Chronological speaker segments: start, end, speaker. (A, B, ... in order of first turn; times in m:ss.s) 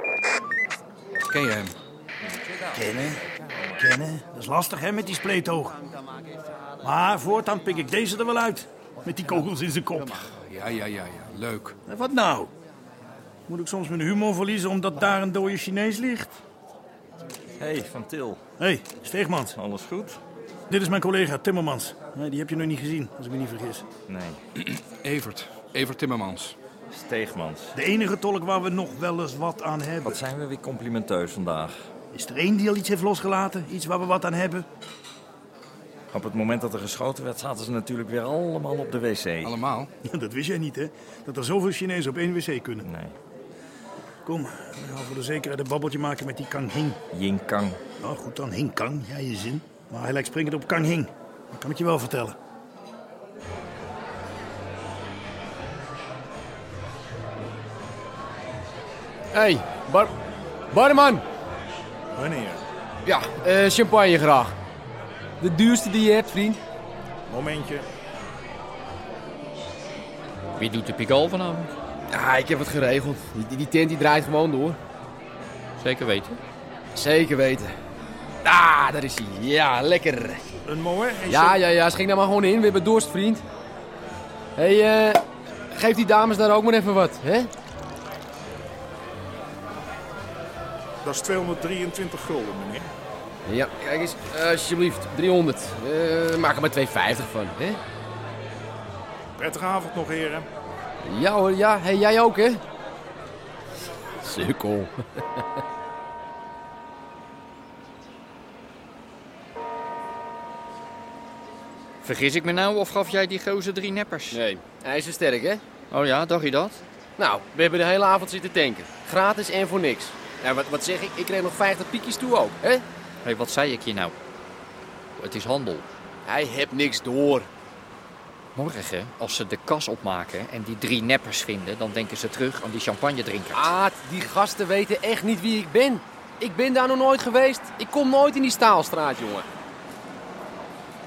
0:01.3-0:01.7 A
0:02.8-0:03.2 B
0:03.8-0:05.7 B
0:06.8-0:10.2 B
0:10.5-0:11.7 A
0:11.9-0:12.5 B
0:13.5-0:16.3 B
0:17.6-0:18.4 C
0:18.6-0:19.6 B
0:19.6-0:20.2 C
0:20.7-0:23.8 B
0:24.1-0:24.4 C
0:24.6-0:26.6 A
0:26.9-0:27.7 C
0:27.7-0:30.2 B
0:30.0-0:31.8 C
0:32.1-0:34.6 B
0:36.1-0:39.5 C
0:39.4-0:39.9 A
0:40.0-0:42.9 B
0:42.8-0:43.1 C
0:44.2-0:47.0 B
0:47.1-0:47.8 C
0:48.0-0:52.4 B
0:59.3-1:00.1 D
1:00.7-1:01.2 D
1:02.1-1:02.6 E
1:03.0-1:04.5 D
1:05.4-1:06.6 D
1:07.3-1:07.9 E
1:10.6-1:11.7 F
1:12.1-1:14.8 D
1:15.8-1:16.4 F
1:17.0-1:17.7 D
1:18.4-1:20.4 D
1:20.6-1:21.6 E
1:21.3-1:23.5 D
1:24.6-1:27.5 D
1:31.0-1:32.9 E
1:33.5-1:37.8 D
1:39.4-1:40.4 E
1:41.0-1:42.6 D
1:44.2-1:45.4 D
1:52.0-1:54.4 F
1:54.3-1:55.6 D
1:55.9-1:56.8 F
1:57.2-2:02.8 D
2:03.2-2:04.1 F
2:05.2-2:05.8 F
2:06.2-2:07.5 D
2:08.6-2:13.7 F
2:13.5-2:19.5 D